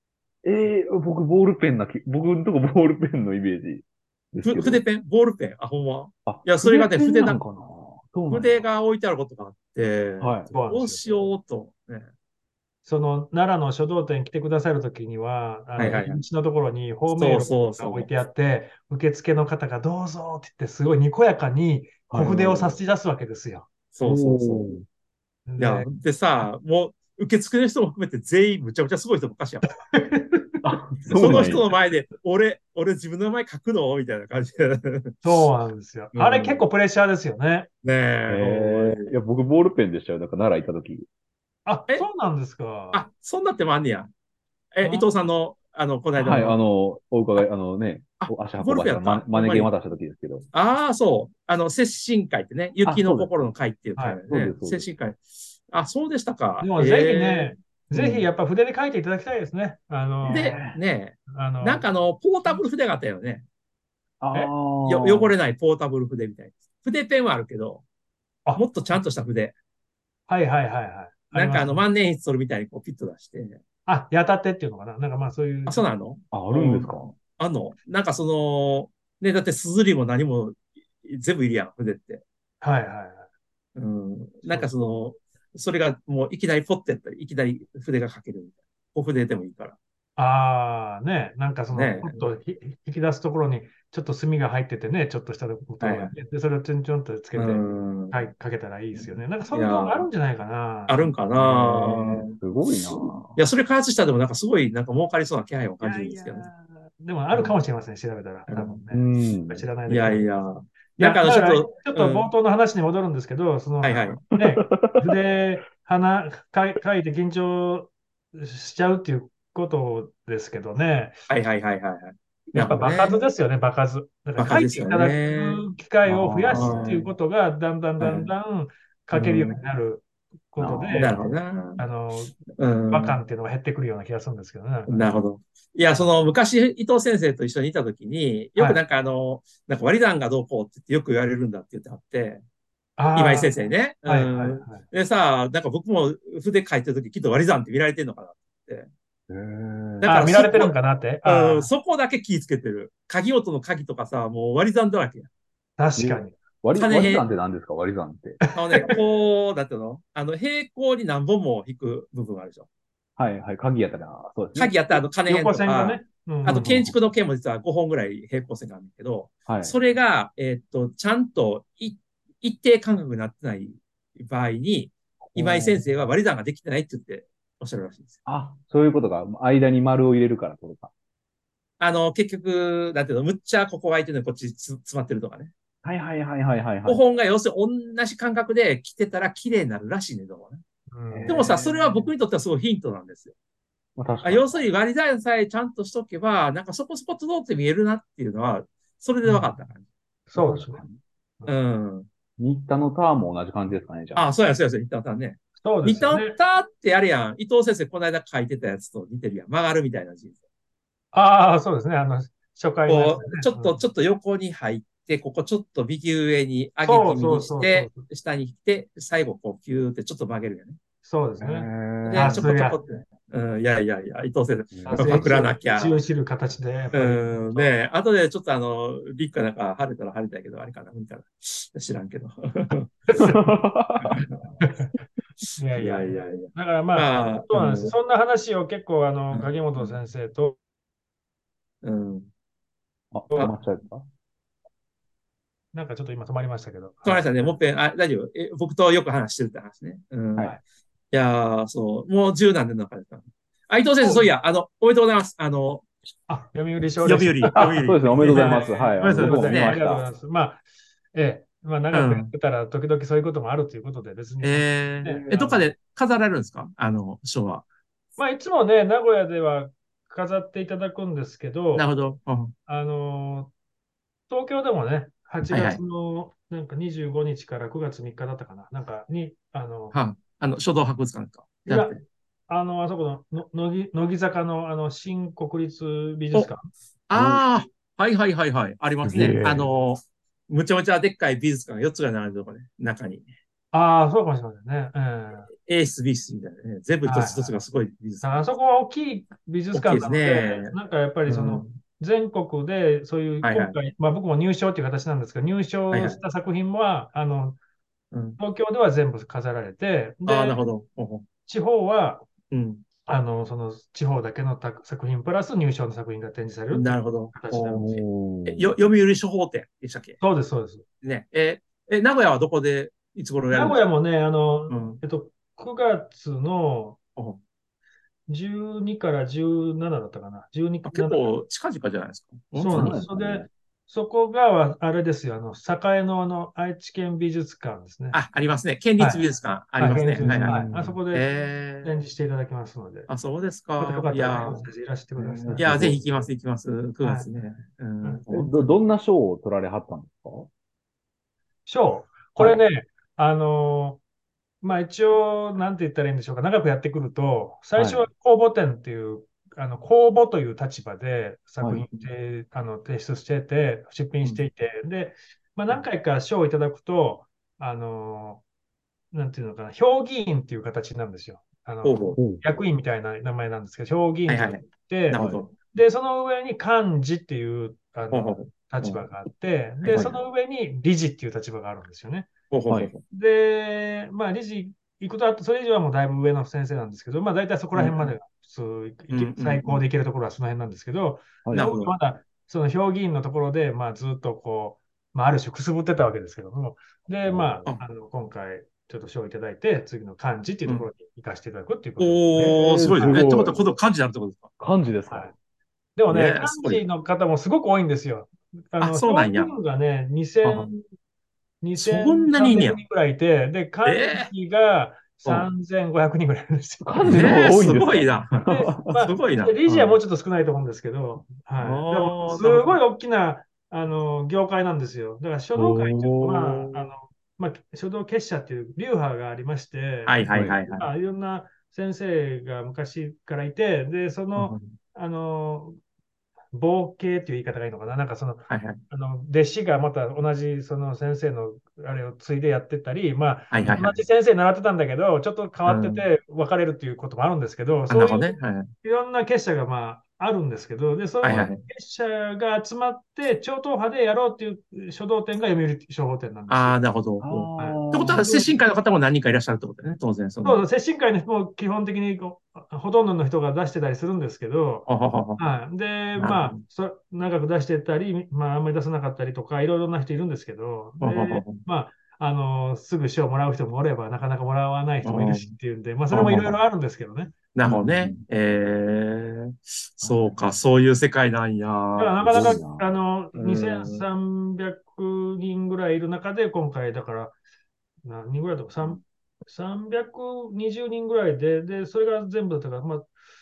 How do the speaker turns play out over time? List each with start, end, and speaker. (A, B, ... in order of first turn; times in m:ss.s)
0:00.4-0:04.8 A
0:04.4-0:07.4 B
0:06.3-0:08.7 A
0:08.3-0:12.1 B
0:10.2-0:10.5 A
0:10.5-0:11.2 C
0:12.8-0:23.7 C
0:15.8-0:16.2 B
0:15.8-0:16.2 A
0:17.1-0:18.1 B
0:22.1-0:22.8 A
0:23.9-0:24.8 B
0:24.0-0:24.8 A
0:25.5-0:25.9 C
0:25.6-0:29.7 B
0:29.7-0:30.5 C
0:30.6-0:31.7 A
0:31.1-0:35.2 B
0:35.2-0:37.7 C
0:36.1-0:36.6 B
0:37.8-0:39.0 B
0:38.3-0:41.1 A
0:41.7-0:43.1 C
0:42.9-0:44.1 B
0:44.7-0:46.6 B
0:44.8-0:45.1 C
0:46.2-0:50.4 A
0:48.2-0:49.7 B
0:50.5-0:57.6 B
0:52.8-0:53.3 A
0:54.3-0:54.9 A
0:56.6-1:00.7 C
0:57.9-0:58.3 A
1:00.2-1:00.8 A
1:00.2-1:03.4 B
1:01.3-1:01.9 C
1:04.2-1:05.4 A
1:04.8-1:07.8 B
1:08.6-1:09.6 B
1:10.3-1:11.8 C
1:11.3-1:13.6 B
1:13.9-1:15.9 C
1:15.7-1:22.2 B
1:16.3-1:17.2 A
1:22.6-1:23.3 C
1:23.8-1:29.8 B
1:24.4-1:24.7 C
1:30.2-1:41.1 C
1:31.7-1:32.2 B
1:35.8-1:36.1 B
1:37.3-1:38.3 B
1:39.5-1:40.1 B
1:40.9-1:42.3 B
1:41.4-1:43.4 A
1:41.8-1:42.1 C
1:43.4-1:46.5 B
1:45.8-2:01.2 C
1:47.3-1:47.6 B
1:48.5-1:48.8 B
1:48.9-1:49.7 A
1:49.9-1:52.3 B
1:53.8-1:54.2 B
2:01.3-2:03.2 B
2:02.5-2:11.2 C
2:04.4-2:05.6 B
2:06.0-2:07.0 A
2:06.5-2:07.1 B
2:08.0-2:08.3 A
2:09.1-2:09.5 A
2:10.6-2:11.3 A
2:11.0-2:11.8 B
2:11.8-2:15.0 C
2:12.6-2:13.2 B
2:14.9-2:22.4 B
2:18.6-2:18.8 C
2:23.0-2:24.8 C
2:23.1-2:28.9 B
2:29.3-2:30.4 A
2:30.0-2:35.3 B
2:30.0-2:31.7 C
2:35.8-2:36.4 C
2:36.0-2:38.4 A
2:36.7-2:37.3 B
2:38.4-2:38.9 C
2:38.5-2:42.7 B
2:43.2-2:44.8 A
2:44.6-2:58.2 B
2:45.2-2:46.9 C
2:46.5-2:47.0 A
2:49.5-2:49.8 A
2:55.3-2:56.0 A
2:58.3-3:00.9 A
3:01.8-3:05.5 B
3:05.8-3:07.0 A
3:06.8-3:10.6 B
3:10.9-3:12.1 C
3:11.1-3:11.7 A
3:11.3-3:13.3 B
3:14.0-3:14.6 A
3:14.2-3:19.8 B
3:19.2-3:19.5 C
3:20.3-3:20.8 C
3:20.3-3:21.0 A
3:21.5-3:22.1 B
3:22.4-3:24.2 A
3:24.1-3:30.4 B
3:25.6-3:26.4 C
3:31.1-3:33.8 C
3:32.9-3:40.8 B
3:36.8-3:38.1 C
3:41.0-3:42.8 C
3:41.4-3:42.5 A
3:42.0-3:46.0 B
3:44.7-3:45.4 A
3:44.9-3:47.8 C
3:46.9-3:53.1 B
3:53.1-3:53.6 C
3:53.2-3:54.1 A
3:54.0-3:54.4 B
3:54.6-3:54.9 C
3:55.6-4:00.6 C
3:55.7-3:58.0 B
3:59.3-4:00.0 B
4:01.8-4:02.3 B
4:03.1-4:04.0 A
4:03.3-4:03.6 C
4:05.7-4:07.6 C
4:07.0-4:10.5 B
4:11.1-4:15.8 B
4:14.0-4:14.3 C
4:16.3-4:20.6 C
4:17.0-4:20.1 B
4:17.6-4:20.1 A
4:21.1-4:25.7 C
4:21.9-4:22.3 B
4:24.4-4:27.6 B
4:28.2-4:31.9 C
4:31.7-4:32.5 B
4:32.7-4:33.5 C
4:34.3-4:40.0 C
4:35.5-4:35.8 B
4:39.9-4:42.0 B
4:41.7-4:42.0 C
4:42.5-4:46.7 C
4:47.1-4:53.3 B
4:47.1-4:47.4 A
4:49.0-4:49.7 A
4:53.7-4:55.5 C
4:55.6-4:58.5 B
4:57.0-4:57.6 C
4:58.2-5:07.6 C
4:59.7-5:01.8 B
5:03.4-5:03.8 B
5:05.9-5:06.2 B
5:08.1-5:08.4 B
5:08.4-5:10.6 C
5:10.2-5:11.2 B
5:11.5-5:12.3 C
5:12.5-5:12.8 B
5:13.1-5:18.0 C
5:16.7-5:17.8 B
5:17.8-5:18.8 A
5:18.4-5:20.2 B
5:20.2-5:20.8 C
5:21.0-5:23.8 B
5:23.5-5:27.0 C
5:24.7-5:25.0 B
5:28.3-5:31.3 C
5:30.8-5:33.0 B
5:32.5-5:38.2 C
5:32.7-5:33.5 A
5:38.1-5:42.0 B
5:39.0-5:43.1 C
5:40.2-5:41.0 A
5:43.1-5:44.7 B
5:43.8-5:46.1 C
5:45.2-5:46.2 A
5:45.6-5:48.8 B
5:47.0-5:47.3 C
5:48.3-5:50.5 A
5:51.7-5:54.0 C
5:52.4-5:52.6 A
5:54.6-6:08.4 C
5:57.8-5:58.1 A
6:01.6-6:01.8 A
6:04.2-6:04.5 B
6:09.1-6:22.3 C
6:11.8-6:12.2 B
6:12.2-6:12.4 A
6:14.3-6:15.5 B
6:15.2-6:15.4 A
6:18.1-6:19.1 B
6:19.8-6:20.2 B
6:19.8-6:20.2 A
6:22.5-6:23.0 B
6:23.1-6:43.3 C
6:27.7-6:28.1 B
6:29.1-6:29.8 B
6:31.4-6:31.7 A
6:31.5-6:32.0 B
6:37.2-6:37.6 A
6:40.6-6:40.9 B
6:42.0-6:44.5 B
6:42.4-6:43.7 A
6:44.6-6:45.3 A
6:46.0-6:50.8 C
6:46.1-6:46.8 B
6:48.8-6:49.6 B
6:51.6-6:57.4 C
6:51.8-6:52.8 B
6:53.8-6:54.3 B
6:55.2-6:55.5 B
6:56.8-6:58.9 A
6:57.1-6:59.6 B
6:58.5-7:15.8 C
6:59.6-7:00.0 A
7:01.6-7:02.8 B
7:05.6-7:06.9 A
7:10.0-7:10.9 B
7:10.3-7:10.6 A
7:14.4-7:14.7 B
7:16.5-7:36.8 C
7:18.5-7:18.8 B
7:23.5-7:24.0 B
7:25.7-7:26.1 B
7:27.9-7:28.7 B
7:31.2-7:31.6 B
7:36.5-7:40.6 B
7:37.2-7:38.3 A
7:37.6-7:38.6 C
7:40.4-7:44.9 C
7:44.9-7:45.4 B
7:45.4-7:57.4 C
7:46.2-7:46.6 B
7:51.0-7:51.6 B
7:55.0-7:55.5 B
7:56.1-7:56.5 B
7:56.2-7:56.6 A
7:57.5-8:02.6 B
7:57.6-7:58.2 A
8:00.0-8:00.4 A
8:02.0-8:07.4 C
8:02.2-8:03.0 A
8:03.3-8:04.1 B
8:08.0-8:13.1 C